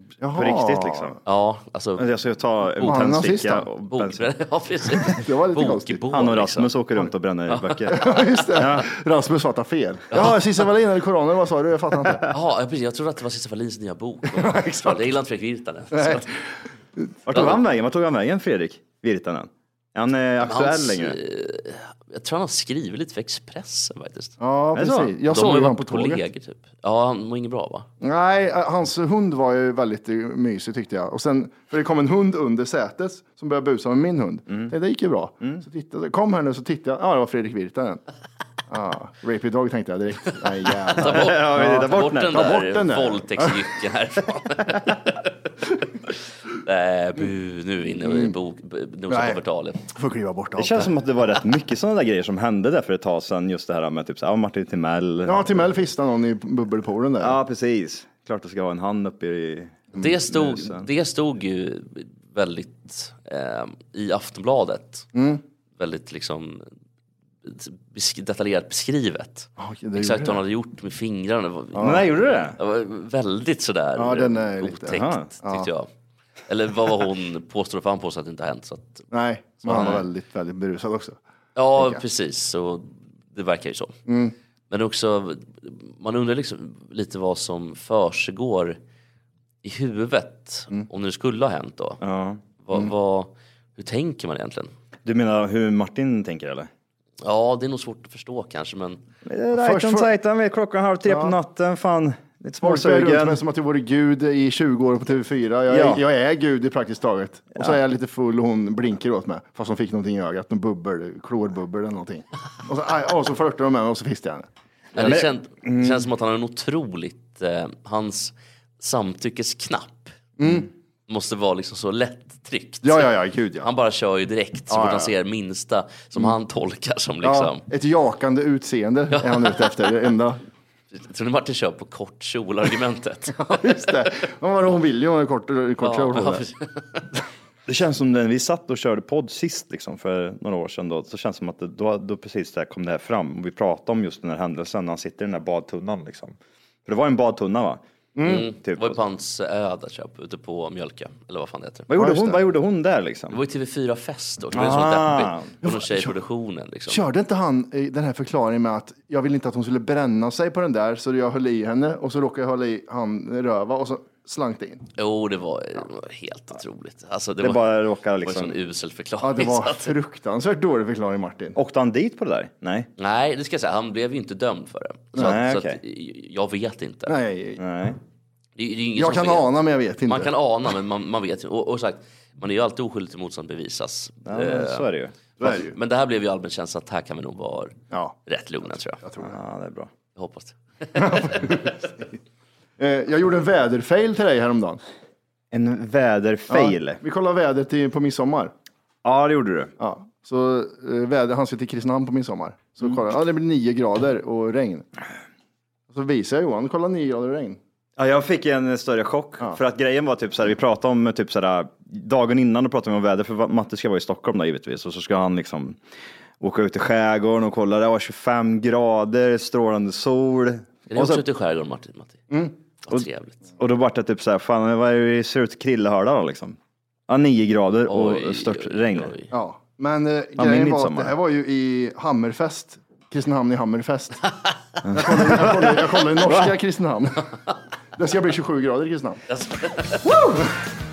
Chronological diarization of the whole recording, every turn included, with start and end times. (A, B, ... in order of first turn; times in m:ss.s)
0:00.2-0:01.2 A
0:00.3-0:01.2 B
0:01.2-0:02.1 C
0:02.0-0:04.3 B
0:02.8-0:03.2 C
0:02.8-0:03.6 A
0:03.9-0:06.8 C
0:05.1-0:06.0 A
0:06.1-0:08.9 B
0:07.5-0:08.6 C
0:07.9-0:12.2 A
0:10.1-0:10.7 C
0:12.3-0:16.3 C
0:14.3-0:15.1 A
0:15.9-0:16.3 A
0:17.3-0:21.2 B
0:17.3-0:17.6 C
0:20.4-0:24.4 C
0:24.4-0:26.2 A
0:24.7-0:25.2 B
0:25.3-0:27.9 C
0:28.0-0:38.0 A
0:34.5-0:34.7 B
0:38.7-0:43.6 A
0:40.9-0:45.3 C
0:41.0-0:42.5 B
0:46.6-0:49.8 C
0:48.0-0:48.3 A
0:49.1-0:49.4 A
0:49.9-0:50.9 A
0:50.6-0:55.7 B
0:55.2-0:57.4 A
0:57.2-1:00.9 B
0:59.9-1:05.1 C
1:05.1-1:05.4 A
1:05.8-1:06.6 C
1:07.4-1:15.9 C
1:09.6-1:10.4 A
1:11.7-1:12.0 A
1:11.8-1:12.6 B
1:14.0-1:15.7 A
1:14.9-1:15.3 B
1:16.5-1:19.1 C
1:19.1-1:21.2 A
1:19.6-1:20.0 C
1:21.6-1:24.0 C
1:21.8-1:22.0 A
1:24.1-1:24.3 A
1:24.7-1:28.8 C
1:29.6-1:32.0 C
1:32.0-1:32.4 B
1:32.6-1:34.7 C
1:35.0-1:36.7 B
1:37.2-1:39.0 C
1:39.2-1:43.4 B
1:39.5-1:40.1 A
1:41.1-1:41.3 A
1:42.6-1:54.5 A
1:45.7-1:46.0 B
1:47.6-1:47.8 B
1:54.9-2:00.1 C
1:54.9-1:56.0 B
2:00.4-2:00.7 A
2:01.1-2:07.6 C
2:02.8-2:03.7 A
2:04.7-2:05.1 A
2:07.2-2:10.4 A
2:09.1-2:10.1 C
2:10.9-2:14.1 C
2:13.5-2:16.4 A
2:15.8-2:17.1 C
2:17.7-2:29.0 B
2:28.2-2:28.5 A
2:28.2-2:31.9 C
2:31.9-2:33.4 B
2:31.9-2:32.4 A
2:33.3-2:37.0 C
2:34.5-2:35.5 B
2:35.6-2:36.2 A
2:36.9-2:44.8 A
2:45.0-2:49.9 C
2:47.4-2:48.6 B
2:49.2-2:51.6 A
2:51.6-2:52.9 B
2:53.0-2:57.2 C
2:55.2-2:55.8 B
2:57.1-2:57.6 A
2:57.6-2:58.0 B
2:58.6-2:59.5 C
2:59.0-3:00.3 A
3:00.0-3:07.8 C
3:04.2-3:05.1 B
3:05.4-3:05.7 A
3:07.9-3:08.2 A
3:08.3-3:09.0 C
3:09.0-3:09.3 A
3:09.2-3:09.9 B
3:10.2-3:11.7 C
3:11.0-3:12.1 A
3:12.8-3:14.8 A
3:15.5-3:17.0 B
3:16.5-3:18.5 A
3:19.0-3:19.7 B
3:19.8-3:24.8 A
3:25.9-3:27.6 A
3:28.0-3:35.8 B
3:36.4-3:41.2 B
3:40.9-3:42.2 C
3:42.8-3:43.4 C
3:43.6-3:49.1 B
3:47.9-3:49.3 C
3:49.3-3:54.2 A
3:50.4-3:51.2 B
3:54.8-3:56.5 B
3:54.9-3:57.3 A
3:58.0-3:59.2 A
3:59.3-4:00.1 C
4:00.1-4:00.5 A